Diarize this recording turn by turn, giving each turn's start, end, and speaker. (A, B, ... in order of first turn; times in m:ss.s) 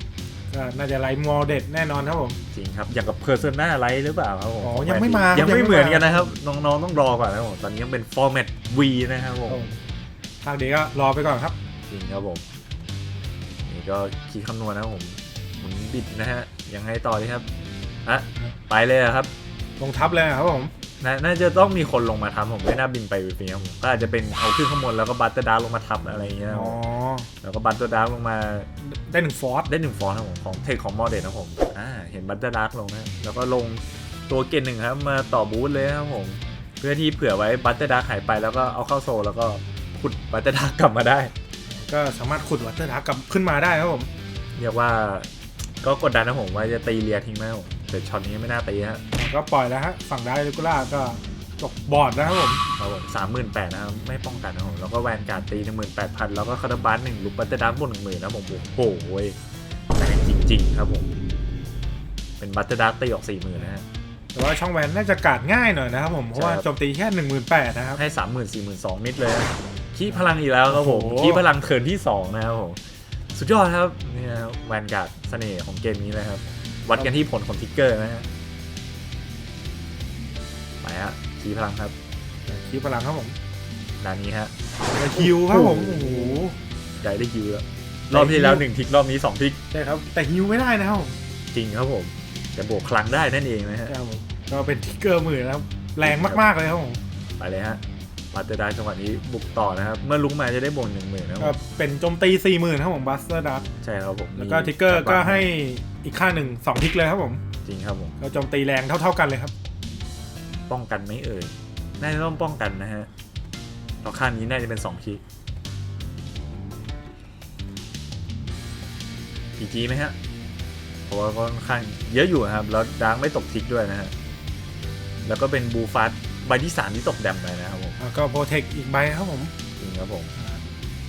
0:00.5-0:02.4 A
0:02.5-0:09.7 B
0:04.6-0:06.2 A
0:09.5-0:09.7 A
0:10.4-0:11.5 A
0:11.9-0:12.4 B
0:13.6-0:17.4 B
0:18.0-0:19.3 B
0:19.8-0:20.7 A
0:21.0-0:26.8 B
0:26.5-0:27.3 A
0:27.4-0:28.7 B
0:28.8-0:29.7 A
0:29.7-0:41.3 B
0:41.7-0:44.1 A
0:44.6-0:45.3 B
0:45.8-0:49.0 B
0:49.1-0:52.6 A
0:52.8-0:59.4 B
1:00.0-1:01.1 B
1:02.4-1:03.8 B
1:04.3-1:08.0 A
1:06.3-1:06.6 B
1:08.0-1:12.8 B
1:10.7-1:11.4 A
1:13.3-1:18.3 B
1:17.0-1:17.2 A
1:20.8-1:21.9 B
1:22.4-1:23.4 A
1:24.0-1:24.5 B
1:24.8-1:26.6 A
1:25.1-1:26.4 B
1:27.0-1:29.6 B
1:28.1-1:28.6 A
1:29.7-1:31.2 A
1:31.5-1:33.9 B
1:33.9-1:37.0 A
1:36.0-1:36.4 B
1:37.4-1:37.8 B
1:38.3-1:41.6 B
1:41.4-1:43.6 A
1:43.8-1:45.5 B
1:44.4-1:47.4 A
1:47.6-1:48.2 B
1:48.2-1:49.5 A
1:50.7-1:53.1 B
1:54.0-1:55.2 B
1:59.6-2:00.1 B
2:01.1-2:04.1 B
2:05.2-2:08.0 B
2:08.0-2:09.5 A
2:09.8-2:10.3 B